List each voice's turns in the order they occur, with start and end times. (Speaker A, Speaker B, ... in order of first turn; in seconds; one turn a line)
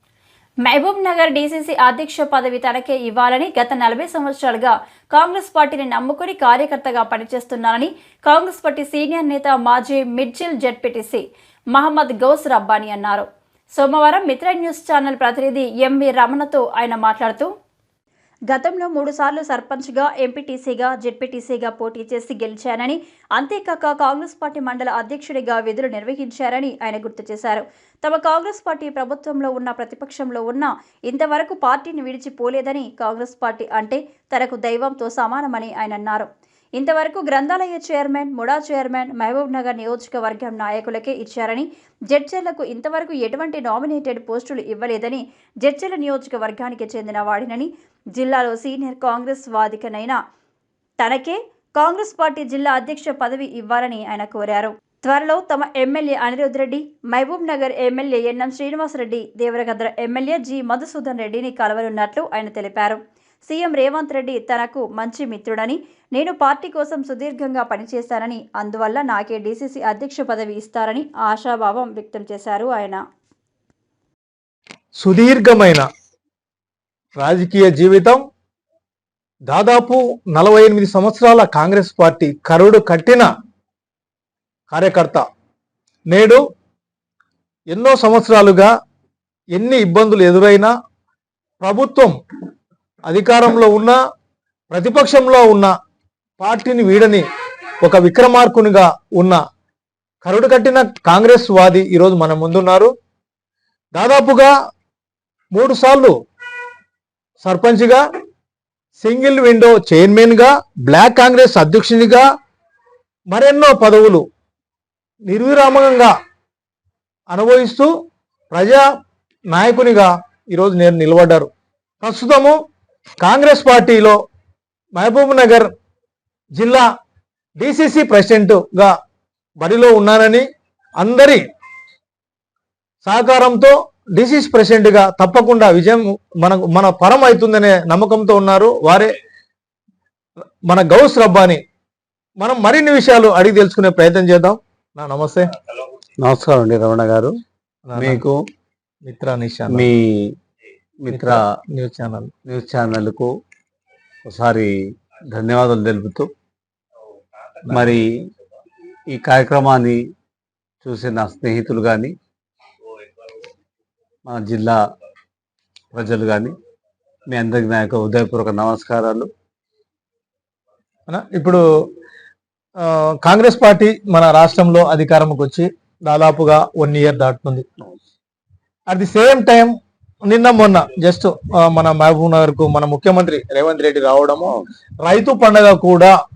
Speaker A: 0.6-17.5
Speaker A: 18.5-50.2
Speaker A: 51.0-73.0
Speaker B: 75.0-75.9
Speaker B: 77.2-78.2
Speaker B: 79.5-83.3
Speaker B: 84.7-85.2
Speaker B: 86.1-86.4
Speaker B: 87.7-88.7
Speaker B: 89.5-90.7
Speaker B: 91.6-92.2
Speaker B: 93.1-94.0
Speaker B: 94.7-95.7
Speaker B: 96.4-97.2
Speaker B: 97.8-99.4
Speaker B: 100.2-102.9
Speaker B: 104.0-104.5
Speaker B: 105.5-106.1
Speaker B: 107.4-108.0
Speaker B: 109.0-112.2
Speaker B: 113.3-114.2
Speaker B: 115.3-116.1
Speaker B: 117.3-117.9
Speaker B: 118.5-118.8
Speaker B: 119.5-121.5
Speaker B: 122.0-122.6
Speaker B: 123.2-124.2
Speaker B: 125.0-125.7
Speaker B: 126.6-126.8
Speaker B: 127.6-128.9
Speaker B: 129.6-130.4
Speaker B: 131.0-131.4
Speaker B: 133.0-139.1
Speaker B: 140.7-141.6
Speaker B: 142.4-145.5
Speaker C: 146.2-147.3
Speaker B: 147.9-148.2
Speaker C: 148.0-148.4
Speaker B: 149.1-149.9
Speaker C: 149.7-150.3
Speaker C: 151.0-151.4
Speaker B: 151.1-152.3
Speaker C: 152.4-153.3
Speaker C: 154.2-154.8
Speaker C: 155.3-156.3
Speaker B: 157.7-157.9
Speaker C: 157.7-158.3
Speaker C: 159.1-160.0
Speaker C: 160.8-162.2
Speaker C: 164.2-164.8
Speaker C: 165.9-166.5
Speaker C: 167.3-169.3
Speaker B: 171.1-171.6
Speaker B: 172.8-177.6
Speaker B: 178.9-179.7
Speaker B: 180.3-186.1